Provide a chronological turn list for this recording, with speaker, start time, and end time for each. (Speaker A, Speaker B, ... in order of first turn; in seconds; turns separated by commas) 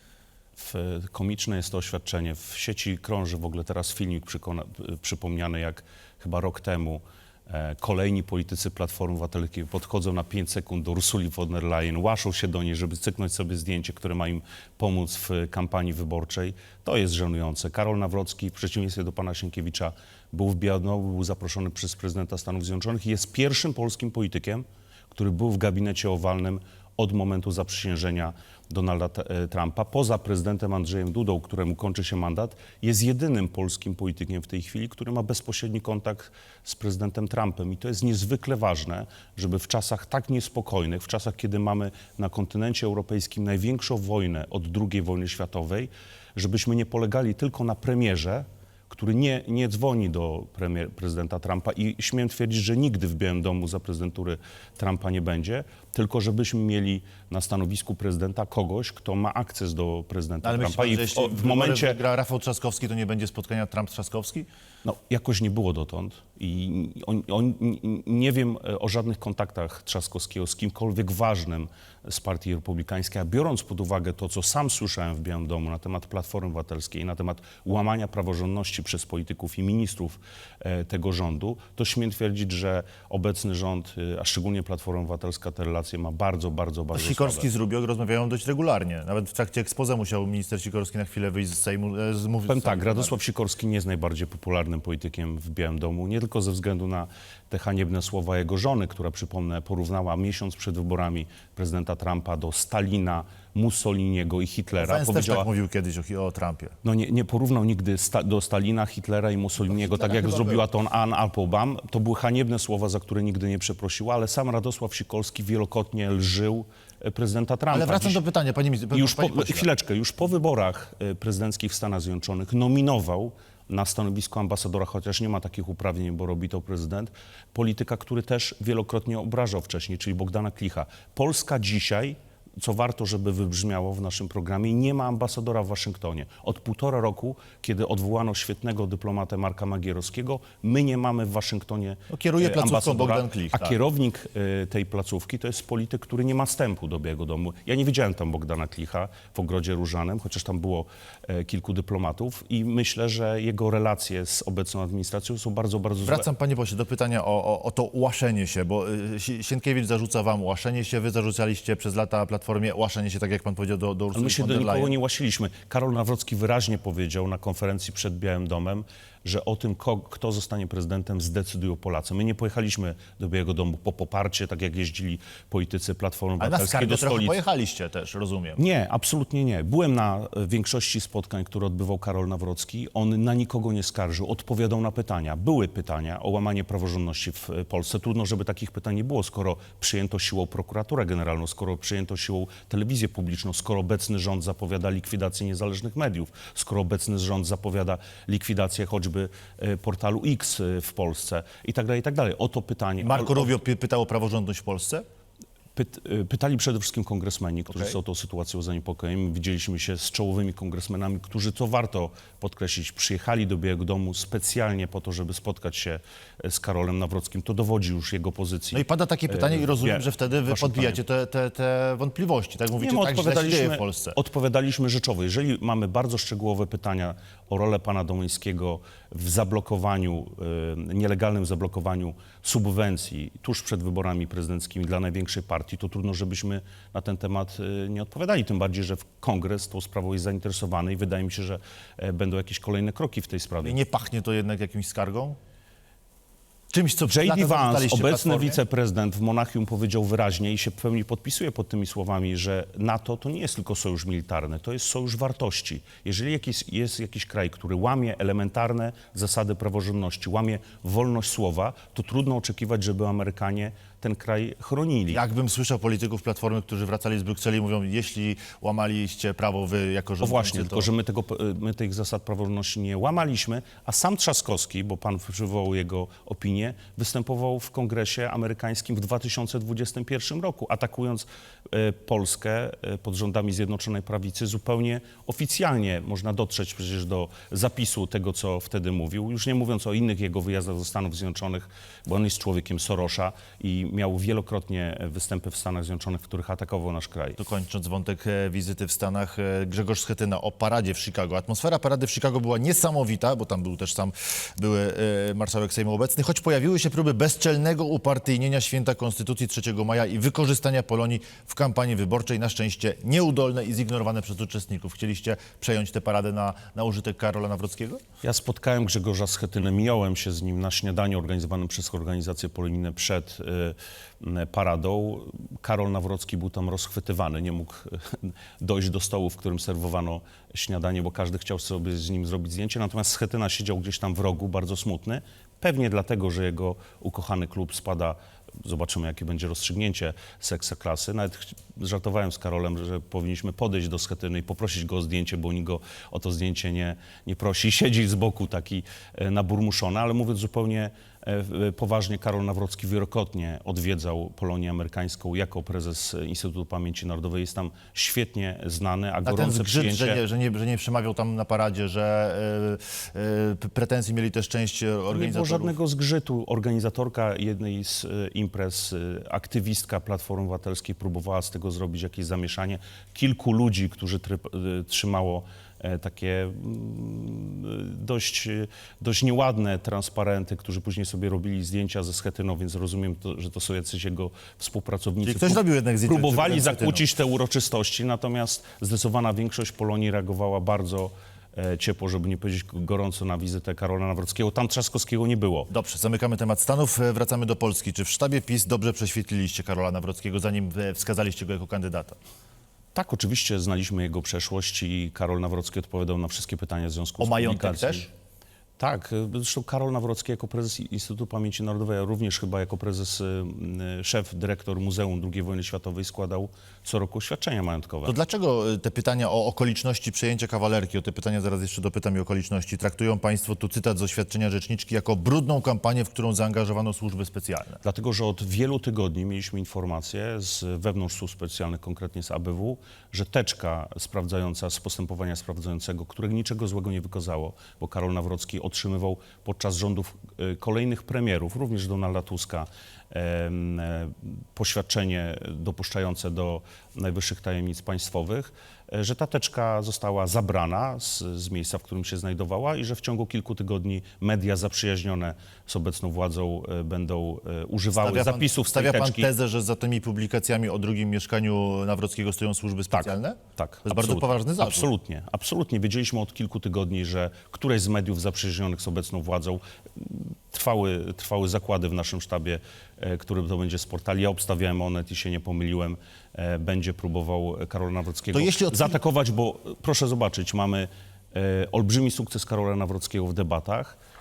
Speaker A: 0.6-62.0, Speaker B: 60.4-64.5, Speaker A: 64.8-87.5, Speaker B: 86.9-93.2, Speaker A: 92.5-105.5, Speaker B: 104.8-106.8, Speaker A: 106.8-118.2, Speaker B: 109.7-110.7, Speaker B: 117.7-119.7, Speaker A: 118.9-156.3, Speaker B: 142.1-143.8, Speaker B: 156.0-164.9, Speaker A: 164.1-177.4, Speaker B: 176.4-178.6, Speaker A: 178.6-203.6, Speaker B: 203.0-205.0, Speaker A: 205.8-221.0, Speaker B: 207.7-208.0, Speaker B: 218.7-224.2, Speaker A: 222.8-243.8, Speaker B: 243.6-245.4, Speaker B: 246.7-248.6, Speaker A: 247.1-265.2, Speaker B: 265.1-270.9, Speaker A: 270.2-297.4, Speaker B: 297.4-318.0, Speaker A: 318.2-360.2, Speaker B: 359.2-365.8, Speaker A: 365.1-395.7, Speaker B: 385.2-387.1, Speaker B: 395.7-402.2, Speaker A: 402.9-408.1, Speaker B: 407.2-408.1, Speaker A: 408.8-418.1, Speaker B: 418.1-427.8, Speaker A: 427.8-459.3, Speaker B: 458.0-464.9, Speaker A: 462.9-484.0, Speaker B: 478.3-479.0